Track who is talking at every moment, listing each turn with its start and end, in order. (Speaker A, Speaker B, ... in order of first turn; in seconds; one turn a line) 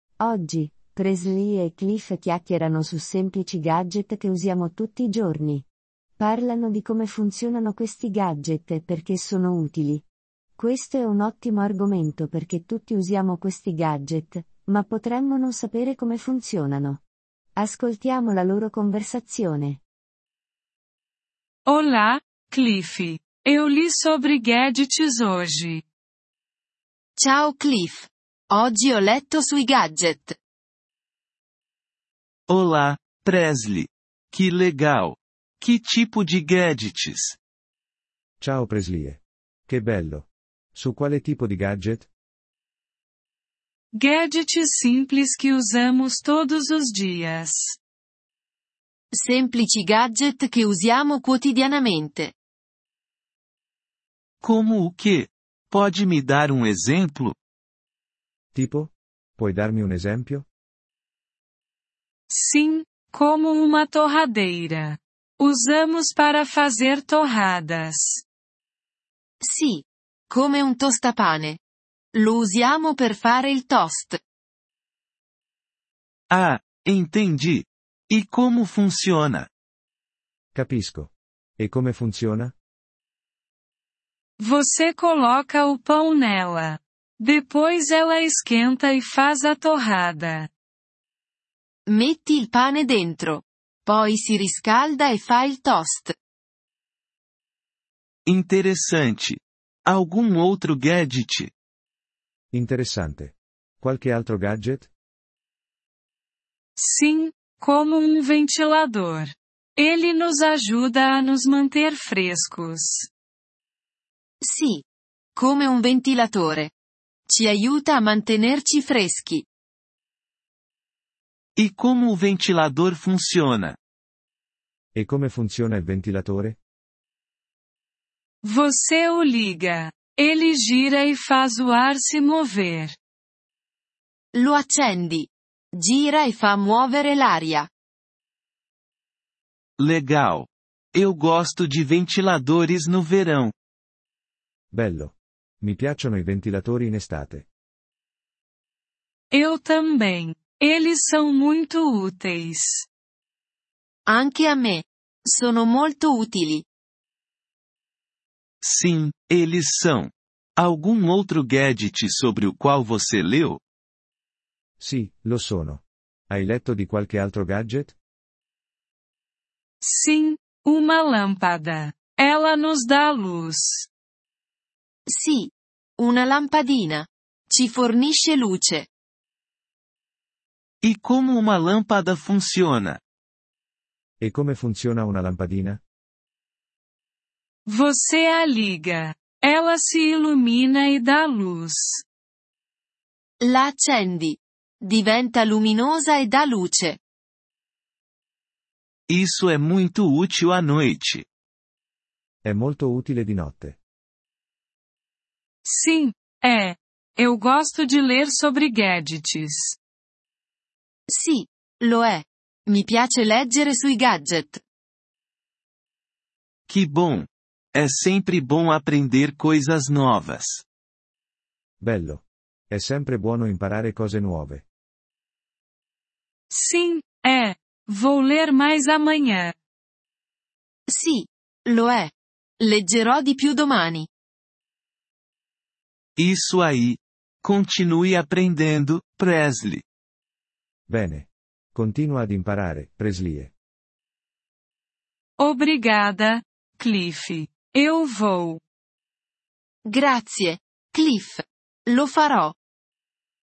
Speaker A: 0.2-5.7
Speaker A: 6.2-10.0
Speaker A: 10.6-17.0
Speaker A: 17.6-19.8
Speaker B: 21.6-25.8
Speaker C: 27.2-30.4
Speaker D: 32.5-37.4
Speaker E: 38.4-42.1
Speaker B: 43.9-47.8
Speaker C: 49.1-52.3
Speaker D: 54.4-57.3
Speaker E: 58.5-60.5
Speaker B: 62.3-68.2
Speaker C: 69.4-71.6
Speaker C: 72.1-74.2
Speaker D: 76.3-79.5
Speaker E: 80.5-82.5
Speaker B: 84.4-90.5
Speaker C: 91.9-96.1
Speaker D: 98.2-101.5
Speaker E: 102.5-104.9
Speaker B: 106.8-113.1
Speaker C: 114.4-114.8
Speaker C: 115.3-116.7
Speaker C: 117.3-119.5
Speaker D: 121.6-123.8
Speaker E: 124.9-126.6
Speaker B: 128.4-132.9
Speaker C: 134.3-137.7
Speaker D: 139.8-143.5
Speaker E: 144.7-147.5
Speaker B: 149.3-152.8
Speaker C: 154.1-156.6
Speaker D: 158.6-163.6
Speaker E: 164.8-167.9
Speaker B: 169.8-173.8
Speaker C: 175.1-178.9
Speaker D: 180.8-183.0
Speaker E: 184.2-185.8
Speaker B: 187.7-192.0
Speaker C: 193.4-197.0
Speaker D: 199.1-201.2
Speaker E: 202.4-203.8
Speaker B: 205.6-209.8
Speaker C: 211.1-214.6
Speaker D: 216.7-220.6
Speaker E: 221.8-224.6
Speaker B: 226.5-229.5
Speaker C: 230.9-234.1
Speaker D: 236.2-239.8
Speaker E: 240.9-243.5
Speaker B: 245.4-248.6
Speaker C: 249.8-252.5